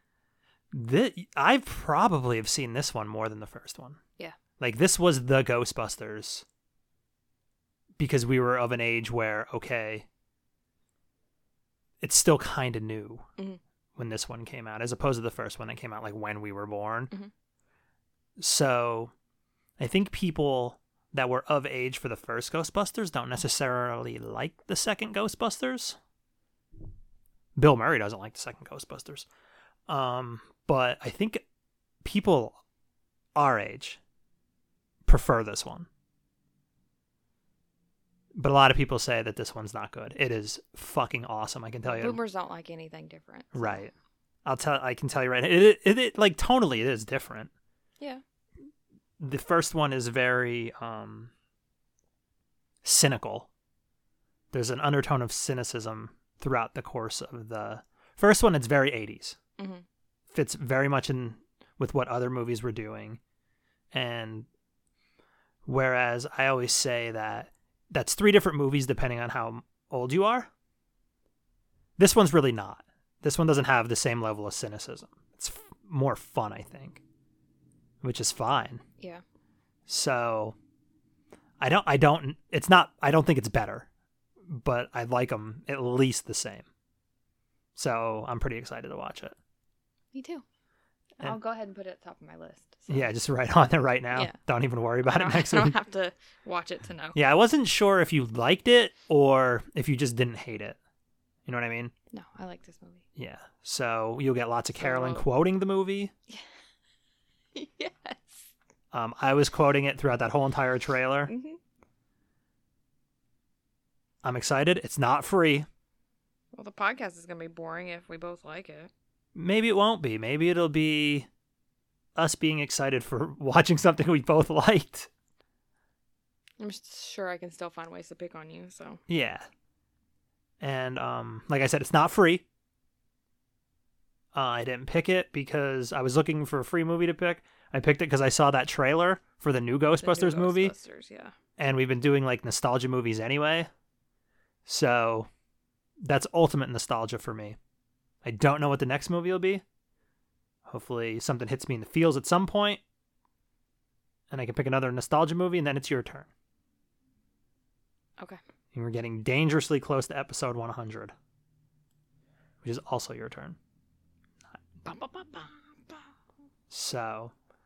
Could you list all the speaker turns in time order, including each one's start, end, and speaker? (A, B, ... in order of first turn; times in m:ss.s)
0:00.7-0:04.0 A
0:04.6-0:06.4 A
0:08.0-0:10.1 A
0:12.0-0:13.3 A
0:14.0-0:17.1 A
0:18.4-0:19.1 A
0:19.8-0:26.0 A
0:27.6-0:29.3 A
0:29.9-0:31.4 A
0:32.0-0:32.6 A
0:33.3-0:34.0 A
0:35.0-0:35.9 A
0:38.3-0:42.2 A
0:41.8-0:43.9 B
0:43.5-0:43.9 A
0:44.4-0:47.5 A
0:49.2-0:51.3 A
0:52.8-0:53.5 A
0:54.5-0:59.4 A
0:59.6-0:59.8 B
1:00.3-1:03.2 A
1:03.9-1:04.5 A
1:05.6-1:10.5 A
1:12.0-1:17.0 A
1:18.0-1:18.8 A
1:19.9-1:20.6 A
1:21.6-1:23.9 A
1:24.4-1:26.6 A
1:27.8-1:29.4 A
1:30.1-1:30.4 B
1:31.2-1:33.1 B
1:32.9-1:35.8 A
1:35.0-1:37.2 B
1:37.1-1:40.8 A
1:41.4-1:41.9 A
1:42.1-1:43.0 B
1:43.2-1:46.1 A
1:44.8-1:45.2 B
1:47.5-1:48.5 B
1:48.9-1:51.3 A
1:51.3-1:51.6 B
1:54.2-1:55.7 A
1:56.5-1:58.9 B
1:59.3-2:01.3 A
2:02.2-2:05.1 A
2:06.6-2:09.0 B
2:09.1-2:09.5 A
2:10.6-2:12.4 A
2:14.3-2:20.7 A
2:20.0-2:21.3 B
2:21.6-2:23.7 A
2:24.6-2:25.3 A
2:26.0-2:27.6 A
2:28.2-2:29.6 A
2:30.6-2:32.8 A
2:34.3-2:36.3 A
2:38.7-2:41.1 A
2:42.6-2:43.6 A
2:44.8-2:46.0 B
2:46.7-2:47.3 A